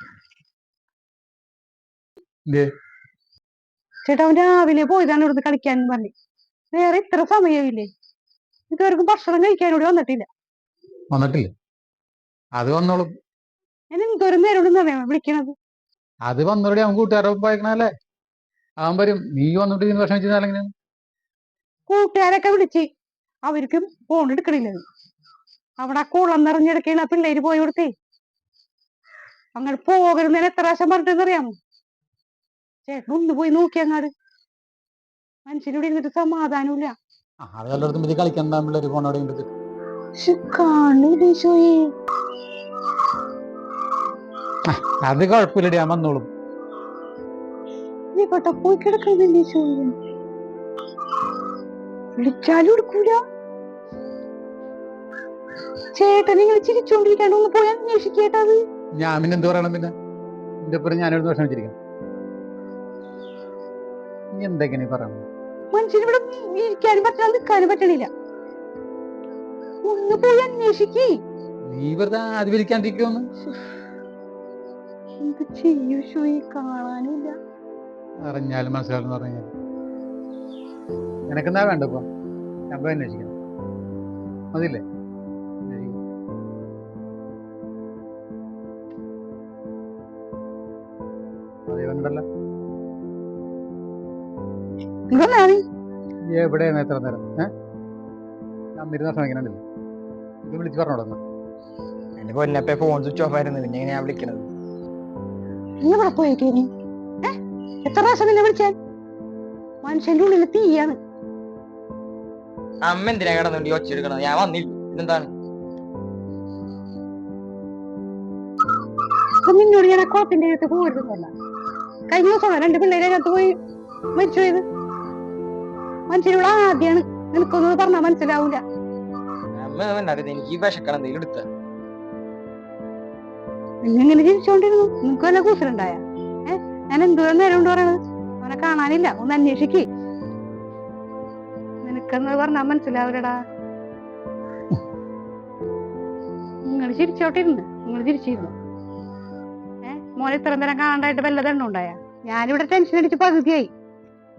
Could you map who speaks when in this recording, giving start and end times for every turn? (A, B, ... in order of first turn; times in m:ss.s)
0:04.0-0:06.1 A
0:06.7-0:07.9 A
0:08.7-0:10.3 A
0:11.1-0:11.5 B
0:12.6-0:13.1 B
0:13.9-0:15.5 A
0:16.2-0:17.9 B
0:18.8-0:20.7 B
0:21.9-0:22.9 A
0:23.4-0:24.8 A
0:25.8-0:27.9 A
0:29.6-0:31.6 A
0:32.8-0:34.1 A
0:35.4-0:37.0 A
0:37.4-0:39.5 B
0:40.2-0:41.9 A
0:44.7-0:46.3 B
0:48.1-0:49.9 A
0:52.2-0:53.2 A
0:55.9-0:58.6 A
0:59.0-0:59.9 B
1:00.6-1:01.7 B
1:04.4-1:05.2 B
1:05.7-1:08.1 A
1:09.8-1:11.2 A
1:11.7-1:13.3 B
1:15.2-1:17.4 A
1:18.2-1:19.5 B
1:21.3-1:22.0 B
1:22.7-1:23.3 B
1:24.5-1:24.8 B
1:25.7-1:26.0 B
1:31.7-1:32.2 B
1:35.1-1:35.6 A
1:36.3-1:37.5 B
1:38.8-1:39.6 B
1:40.4-1:41.2 B
1:42.2-1:44.5 C
1:45.8-1:46.7 A
1:47.2-1:48.8 A
1:49.8-1:51.0 A
1:52.8-1:55.3 C
1:59.4-2:01.3 A
2:02.1-2:03.5 A
2:04.1-2:04.6 A
2:06.1-2:08.6 A
2:09.5-2:11.5 C
2:13.8-2:19.8 A
2:21.8-2:23.3 A
2:26.6-2:28.5 A
2:29.8-2:33.7 A